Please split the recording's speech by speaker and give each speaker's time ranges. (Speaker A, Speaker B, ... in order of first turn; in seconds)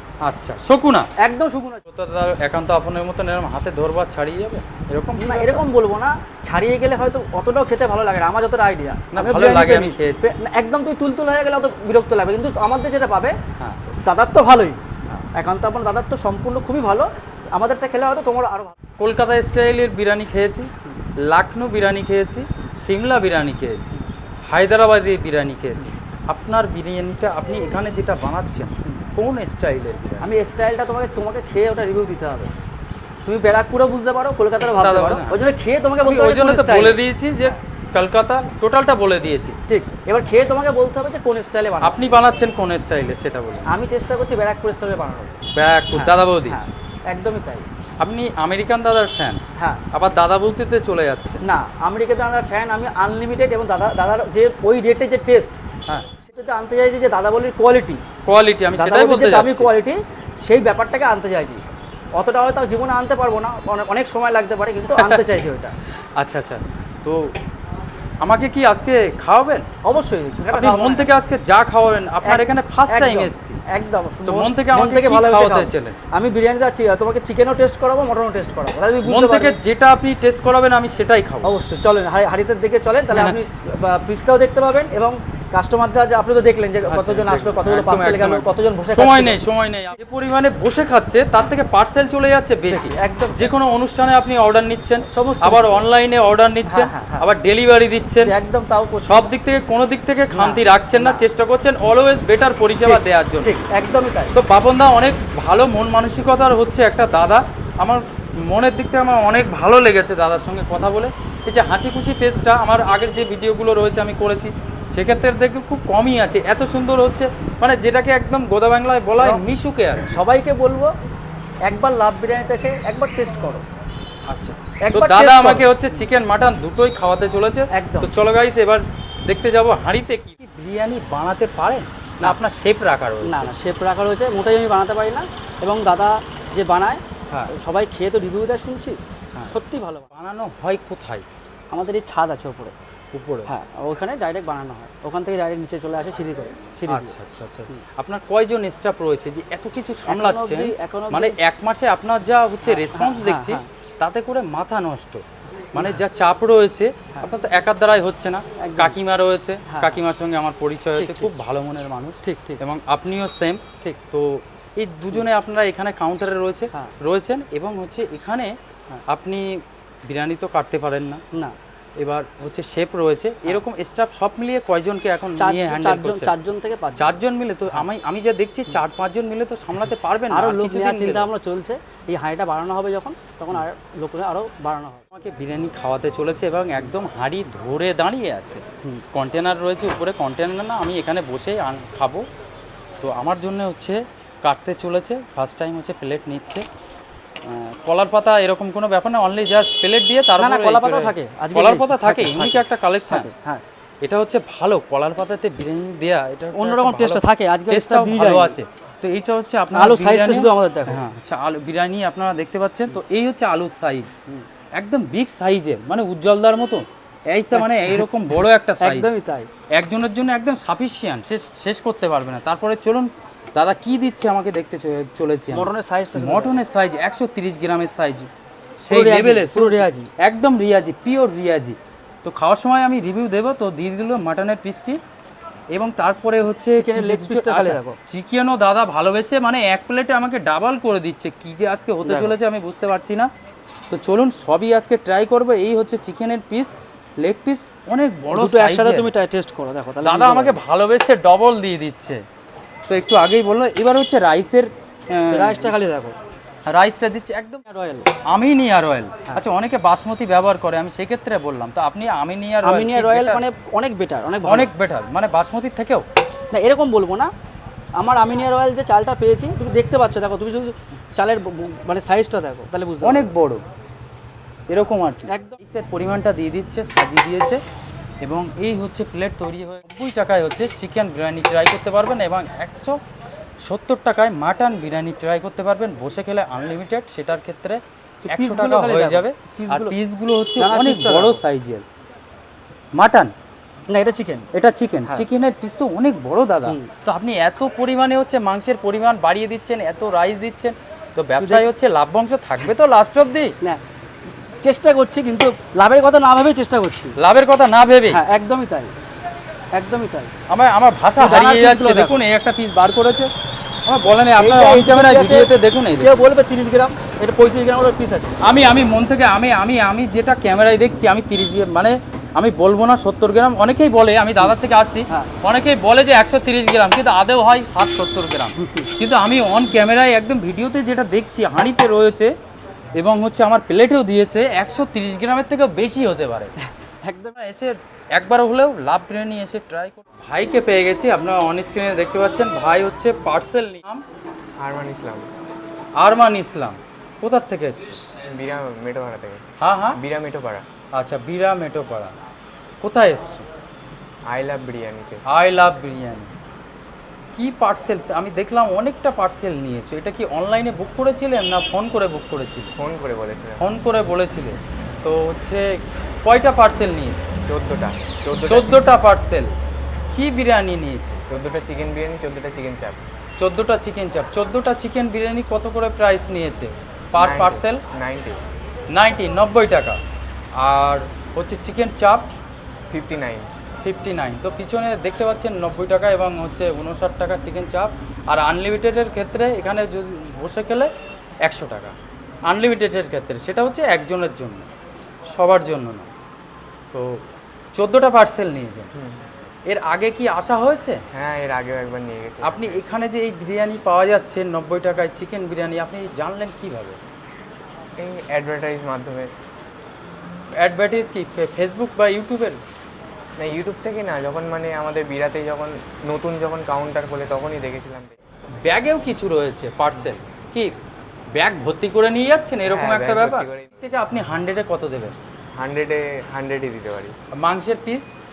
Speaker A: 0.2-1.1, 1.9-5.7, 9.1-10.3, 19.0-30.3, 34.6-35.4, 36.0-39.6, 41.8-43.7, 45.5-46.6, 48.0-49.4, 49.9-51.4, 58.2-59.7, 65.0-65.2, 66.0-67.3, 68.2-69.7, 70.5-73.6, 74.3-76.0, 79.0-81.5, 83.1-83.4, 86.8-98.3, 99.0-103.5, 104.3-120.2, 124.3-133.5, 140.1-141.3, 143.1-143.5, 146.9-171.2, 172.0-176.3, 177.0-181.3, 185.1-192.3, 193.0-196.7, 197.4-203.3, 204.0-214.1, 214.8-219.1, 219.7-228.3, 228.8-235.0, 235.7-243.3, 243.9-249.1, 250.0-252.2, 252.9-255.7, 256.7-257.6, 258.3-263.4, 264.4-266.1, 273.0-273.6, 274.7-277.6, 278.2-283.0, 283.6-291.9, 292.9-293.3, 294.5-303.6, 307.2-308.2, 310.5-313.3, 313.9-316.2, 318.4-332.3, 333.0-336.5, 337.4-344.1, 346.0-348.0, 349.6-350.0, 350.9-352.1, 352.8-353.5, 355.3-356.3, 357.4-362.7, 363.6-367.3, 368.5-369.5, 370.1-371.2, 373.4-377.8, 378.9-380.0, 380.6-382.3, 383.8-390.9, 391.4-394.7, 395.3-396.1, 396.9-397.2, 397.8-398.9, 399.7-401.0, 402.4-407.0, 410.6-412.6, 418.6-420.7, 421.3-425.1, 427.3-428.1
Speaker B: 1.2-1.8, 5.2-13.4, 14.0-18.8, 30.2-32.5, 33.2-37.5, 39.7-42.2, 43.7-47.7, 49.6-49.8, 51.4-55.5, 56.2-58.0, 58.7-61.6, 62.1-65.8, 69.8-71.1, 72.2-79.6, 81.4-89.4, 92.7-93.5, 95.1-95.8, 96.7-97.3, 98.2-99.2, 100.3-101.2, 102.8-104.3, 119.2-119.4, 120.0-120.9, 121.6-123.7, 124.8-126.0, 127.7-128.1, 133.2-140.1, 141.7-142.8, 143.5-147.2, 150.1-151.4, 152.7-153.7, 158.6-159.0, 159.7-160.0, 161.0-161.3, 162.2-162.6, 175.4-177.1, 180.3-185.1, 200.4-203.6, 206.5-208.6, 209.7-211.0, 217.5-218.1, 218.8-219.5, 225.5-226.6, 228.9-230.1, 236.7-238.0, 242.0-242.4, 248.3-250.6, 255.3-256.2, 257.7-258.1, 262.6-264.7, 266.5-267.3, 268.0-273.3, 275.3-275.6, 288.2-290.0, 290.6-291.4, 293.9-294.5, 296.7-296.9, 301.4-301.7, 304.6-307.2, 308.1-308.9, 309.7-310.3, 311.2-312.2, 314.4-318.6, 328.6-328.9, 336.6-337.4
Speaker C: 344.6-345.3, 348.3-349.4, 349.9-350.6, 354.3-355.2, 362.8-363.7, 367.5-368.9, 371.3-373.0, 377.1-378.4, 382.9-383.5, 398.9-399.2, 401.1-402.8, 408.0-409.3, 413.4-418.1, 422.7-423.8, 425.6-427.1